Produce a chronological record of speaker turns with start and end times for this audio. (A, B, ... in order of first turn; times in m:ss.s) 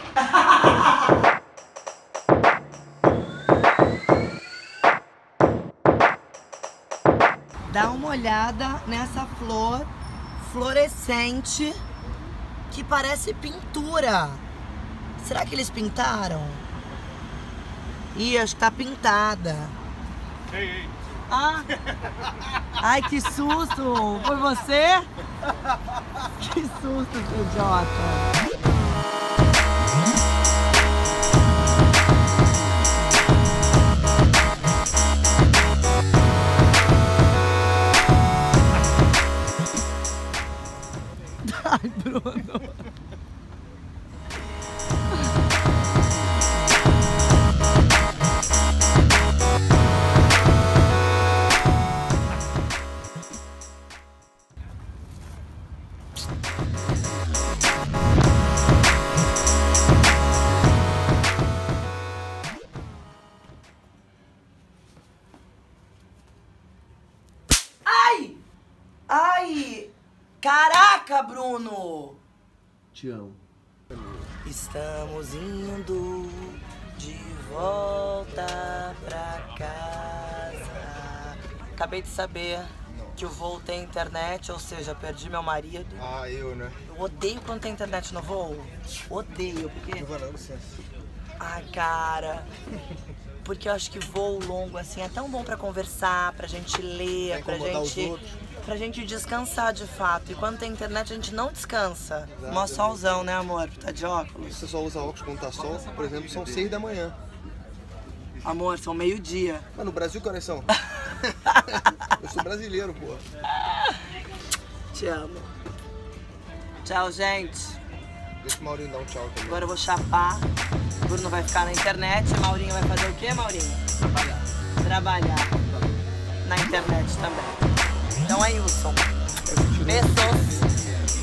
0:00.2-0:01.1 A
0:07.7-0:11.8 A
0:12.7-0:14.4 A
0:15.2-0:16.6 A
0:18.1-0:19.7 A
0:21.3-0:21.7 A
0:22.8-0:25.1 A
0:26.3-0:28.3 A
0:41.4-0:42.7 A
1:07.8-1:08.4 A
1:09.1-1:12.2 A
1:12.9-1:13.4 B
1:14.4-1:26.0 A
1:22.9-1:23.2 B
1:26.0-1:26.8 B
1:26.8-1:30.1 A
1:30.0-1:30.8 B
1:31.4-1:32.5 A
1:33.4-1:44.6 A
1:37.3-1:38.2 B
1:42.4-1:42.9 B
1:44.5-1:47.2 B
1:48.4-1:49.6 A
1:49.7-1:50.7 B
1:50.9-1:52.1 A
1:51.7-1:53.2 B
1:53.6-1:54.0 A
1:54.9-1:55.5 A
1:56.8-1:57.8 A
1:58.4-1:59.6 B
1:59.4-2:00.5 A
2:01.0-2:03.8 A
2:04.8-2:05.5 A
2:06.4-2:07.6 A
2:08.2-2:09.1 A
2:09.5-2:10.6 B
2:09.8-2:10.6 A